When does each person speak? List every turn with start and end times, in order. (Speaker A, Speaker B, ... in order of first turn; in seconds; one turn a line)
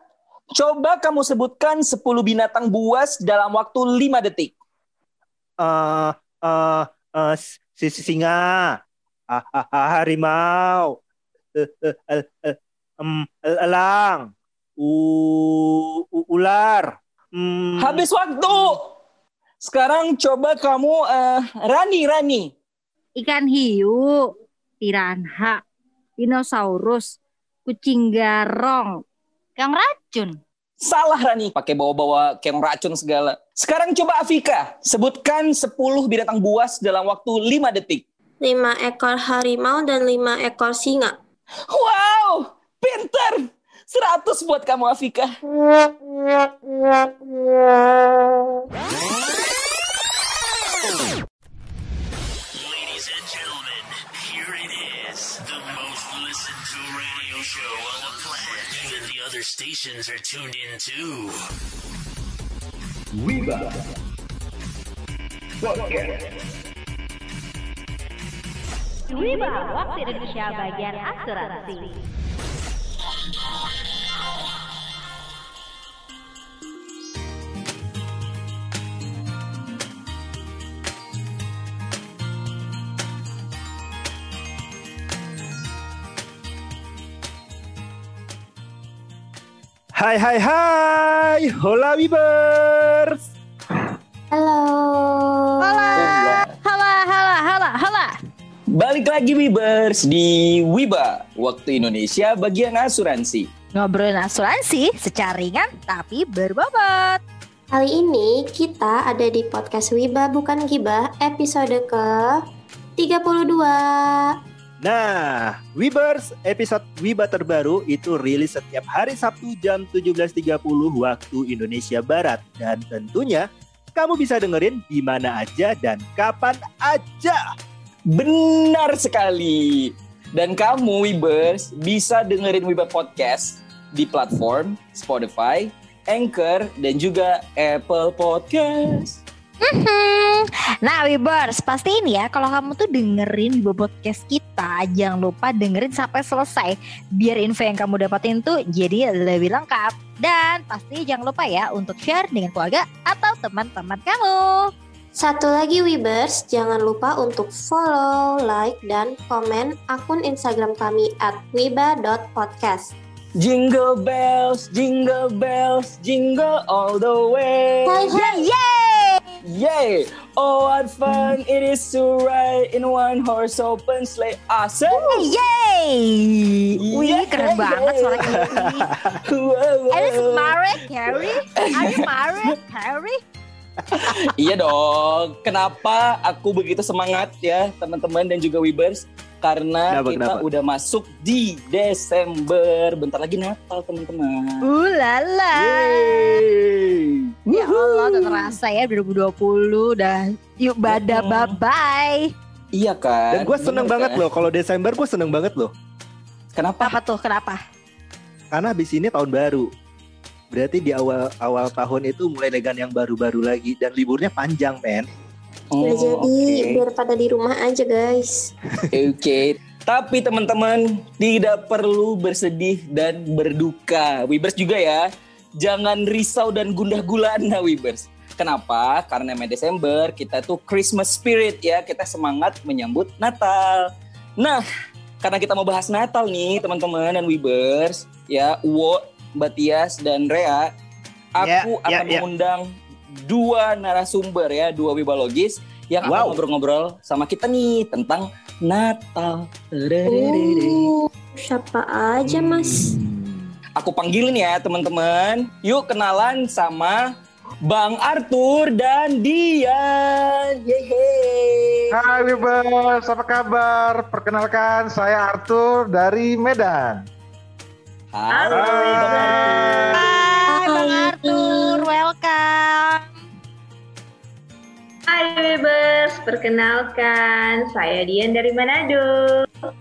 Speaker A: 0.5-4.5
Speaker B: 5.6-8.8
Speaker B: 9.3-10.9
Speaker B: 11.6-18.0
Speaker A: 17.8-18.9
Speaker A: 19.6-22.5
Speaker C: 23.2-24.1
Speaker C: 24.8-25.6
Speaker C: 26.2-27.1
Speaker C: 27.7-28.9
Speaker C: 29.6-30.3
Speaker A: 30.8-38.0
Speaker D: 38.4-41.1
Speaker A: 41.7-45.4
Speaker E: 52.5-61.4
Speaker A: 63.2-63.7
Speaker A: 65.6-66.2
Speaker C: 69.1-71.9
Speaker B: 90.0-93.2
Speaker D: 94.3-96.1
Speaker C: 95.6-98.1
Speaker A: 95.9-96.5
Speaker A: 98.8-103.5
Speaker C: 103.8-107.2
Speaker D: 107.7-112.3
Speaker D: 113.0-114.2
Speaker B: 114.8-127.4
Speaker A: 128.1-139.2
Speaker C: 139.6-154.7
Speaker D: 155.1-162.9
Speaker A: 163.4-168.1
Speaker D: 167.8-168.4
Speaker C: 168.1-169.2
Speaker A: 169.4-175.3
Speaker C: 174.9-178.9
Speaker A: 176.8-178.5
Speaker B: 178.3-179.2
Speaker A: 179.2-180.6
Speaker C: 179.9-183.2
Speaker A: 181.1-182.5
Speaker A: 183.9-194.6
Speaker B: 189.9-190.4
Speaker C: 194.6-196.4
Speaker B: 195.6-197.1
Speaker A: 197.5-198.5
Speaker C: 197.5-202.3
Speaker A: 200.9-201.6
Speaker A: 202.7-204.2
Speaker B: 203.3-205.7
Speaker A: 206.5-207.0
Speaker C: 206.8-207.6
Speaker B: 208.5-209.7
Speaker B: 210.5-215.1
Speaker A: 215.7-216.8
Speaker D: 215.8-218.5
Speaker A: 218.9-225.0
Speaker A: 225.6-233.9
Speaker A: 235.2-240.7
Speaker A: 241.3-250.9
Speaker B: 241.4-242.2
Speaker B: 246.0-246.4
Speaker D: 250.1-252.9
Speaker B: 252.2-253.5
Speaker A: 253.8-257.0
Speaker A: 257.6-261.9
Speaker F: 261.9-267.0
Speaker A: 268.1-270.0
Speaker G: 268.3-270.3
Speaker C: 269.9-273.1
Speaker D: 270.5-271.8
Speaker G: 275.1-279.5